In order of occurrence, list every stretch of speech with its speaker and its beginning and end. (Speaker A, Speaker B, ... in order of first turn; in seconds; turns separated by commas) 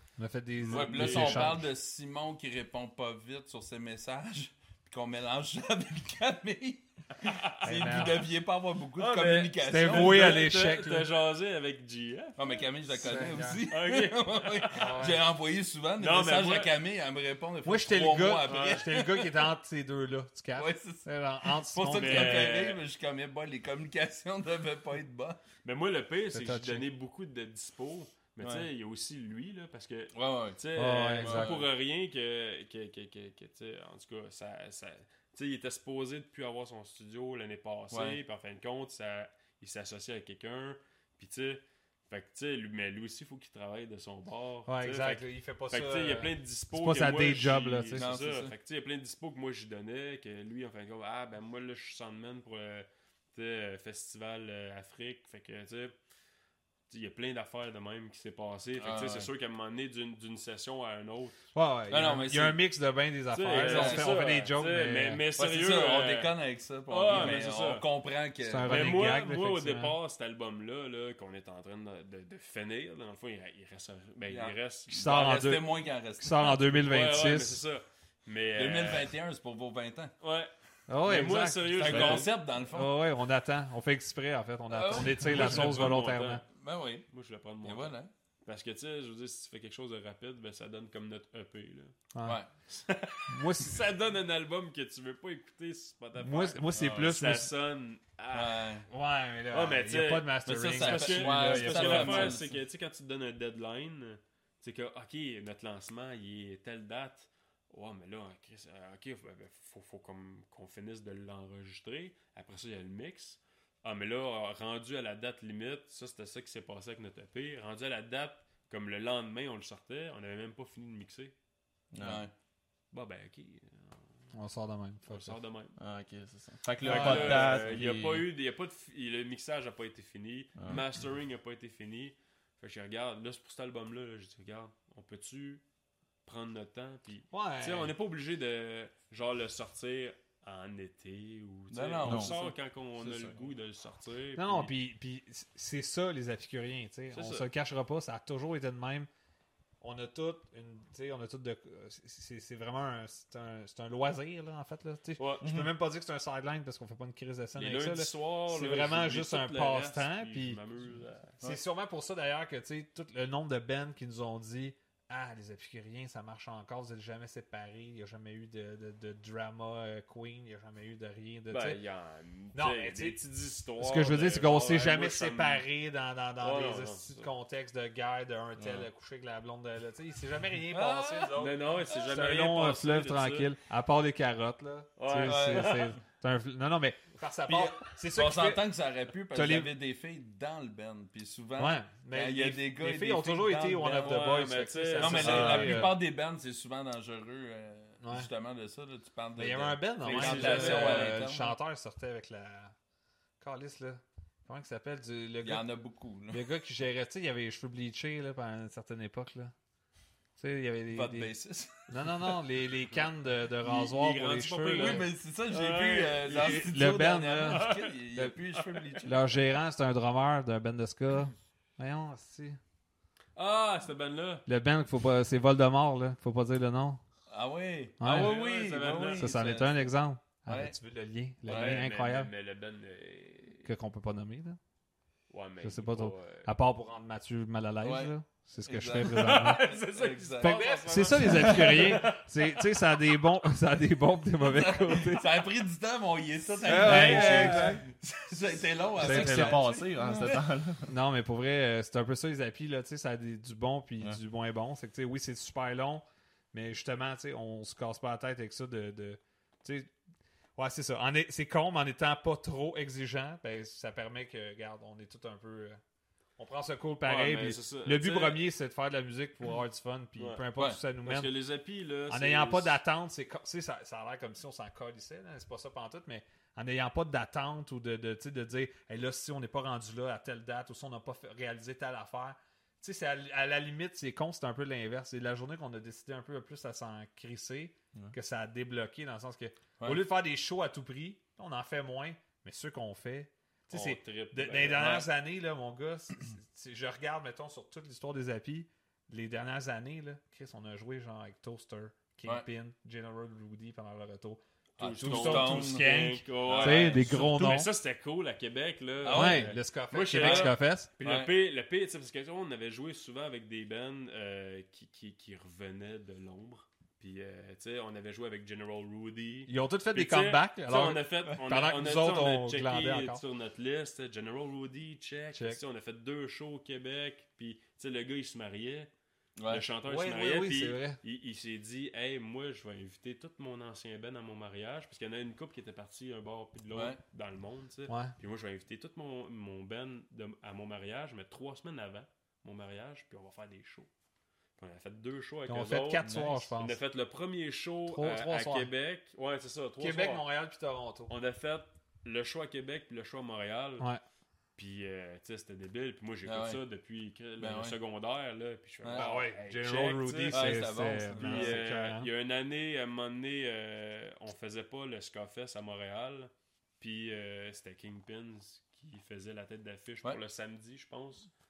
Speaker A: 0.2-1.7, Speaker B: 0.6-1.5, Speaker C: 0.7-10.5, Speaker B: 7.2-7.6, Speaker A: 7.6-8.3, Speaker B: 8.9-12.4, Speaker A: 9.6-11.1, Speaker C: 12.4-19.4, Speaker A: 12.9-13.6, Speaker B: 13.7-14.8, Speaker A: 14.7-15.2, Speaker B: 16.0-16.7, Speaker A: 17.6-22.6, Speaker B: 18.4-18.8, Speaker C: 20.5-25.4, Speaker B: 21.9-22.8, Speaker B: 25.6-55.9, Speaker A: 26.3-26.9, Speaker C: 28.4-28.7, Speaker C: 30.1-30.6, Speaker A: 30.8-31.6, Speaker C: 31.2-31.7, Speaker C: 37.9-38.2, Speaker A: 44.7-48.1, Speaker C: 47.9-48.5, Speaker B: 56.9-61.4, Speaker C: 58.8-59.3, Speaker A: 61.5-65.2, Speaker C: 61.9-62.6, Speaker B: 63.3-67.8, Speaker C: 63.5-64.2, Speaker C: 65.3-69.0, Speaker A: 68.4-70.0, Speaker B: 68.7-75.2, Speaker C: 74.2-76.6, Speaker A: 74.9-77.6, Speaker B: 76.4-79.1, Speaker C: 78.5-80.1, Speaker B: 80.2-82.3, Speaker A: 80.9-86.4, Speaker C: 81.7-83.0, Speaker D: 81.9-82.2, Speaker C: 84.7-86.0, Speaker B: 85.2-86.4, Speaker C: 86.5-87.0, Speaker B: 87.1-91.9, Speaker C: 87.6-88.1, Speaker A: 92.1-92.4, Speaker C: 92.2-92.5, Speaker B: 92.7-98.7, Speaker A: 93.3-93.8, Speaker A: 96.2-97.5, Speaker C: 96.7-97.0, Speaker C: 98.3-98.9, Speaker A: 98.9-102.4, Speaker B: 99.5-121.3, Speaker C: 100.5-102.5, Speaker D: 121.9-122.2, Speaker C: 122.0-122.3, Speaker B: 122.9-124.0, Speaker A: 124.3-125.4, Speaker B: 125.1-125.8, Speaker D: 125.8-128.2, Speaker B: 126.8-135.6, Speaker A: 126.8-127.4, Speaker C: 127.0-127.5, Speaker D: 130.6-130.8, Speaker B: 136.2-144.7, Speaker A: 137.3-137.9, Speaker C: 141.7-142.5, Speaker D: 142.0-142.3, Speaker D: 143.0-143.3, Speaker A: 144.4-149.1, Speaker B: 147.1-147.5, Speaker A: 149.8-160.6, Speaker B: 155.2-155.4, Speaker D: 155.4-155.7, Speaker B: 157.5-161.3, Speaker A: 161.4-171.8, Speaker B: 171.5-175.6, Speaker A: 172.5-173.2, Speaker A: 173.8-188.6, Speaker B: 176.4-177.3, Speaker C: 180.7-181.5, Speaker B: 181.3-183.5, Speaker B: 185.0-185.9, Speaker C: 185.2-185.9, Speaker C: 187.5-194.2, Speaker A: 189.3-189.7, Speaker A: 191.6-196.0, Speaker B: 193.9-195.9, Speaker C: 195.0-201.6, Speaker A: 198.0-198.3, Speaker A: 199.4-202.7, Speaker B: 200.0-201.2, Speaker A: 203.4-205.6, Speaker C: 205.4-206.4, Speaker A: 206.3-209.5, Speaker A: 210.4-211.3, Speaker C: 210.9-212.1, Speaker A: 211.9-215.1, Speaker B: 213.6-216.7, Speaker C: 214.7-219.4, Speaker A: 216.3-218.3, Speaker B: 217.4-217.9, Speaker A: 219.0-222.6, Speaker B: 223.3-224.4, Speaker A: 224.4-227.0, Speaker C: 227.3-229.9, Speaker A: 228.0-228.4, Speaker B: 228.0-229.3, Speaker A: 229.1-232.3, Speaker C: 230.5-230.8, Speaker C: 231.4-231.8, Speaker B: 231.5-233.7, Speaker A: 233.6-234.6, Speaker B: 235.3-236.5, Speaker A: 235.6-239.7, Speaker C: 237.8-241.3, Speaker B: 239.1-242.5, Speaker A: 240.4-245.3, Speaker C: 244.4-250.3, Speaker A: 246.6-247.8, Speaker D: 246.7-247.8, Speaker B: 246.8-247.6, Speaker D: 249.0-250.9, Speaker A: 249.0-249.7, Speaker A: 250.8-259.9, Speaker A: 260.6-265.8, Speaker A: 266.4-271.3, Speaker B: 267.0-268.4, Speaker B: 270.1-270.4, Speaker B: 271.0-272.8, Speaker A: 272.1-304.4, Speaker B: 293.7-295.1, Speaker C: 304.8-305.9, Speaker B: 304.8-328.9, Speaker A: 305.0-307.7, Speaker C: 306.4-307.3, Speaker C: 309.0-309.6, Speaker A: 309.1-310.9, Speaker C: 310.1-311.3, Speaker A: 319.5-323.2, Speaker A: 325.3-325.6, Speaker C: 329.4-329.7, Speaker B: 329.5-343.9, Speaker A: 329.8-331.0, Speaker C: 336.7-337.0, Speaker A: 337.9-338.1, Speaker B: 344.6-350.2, Speaker A: 345.5-346.8, Speaker D: 346.0-346.3, Speaker A: 347.9-348.7, Speaker A: 349.8-351.1, Speaker B: 351.1-353.9, Speaker B: 354.6-360.6, Speaker C: 356.2-356.6, Speaker C: 357.4-357.8, Speaker C: 358.8-359.1, Speaker A: 358.9-362.1, Speaker C: 360.3-361.6, Speaker B: 361.1-371.3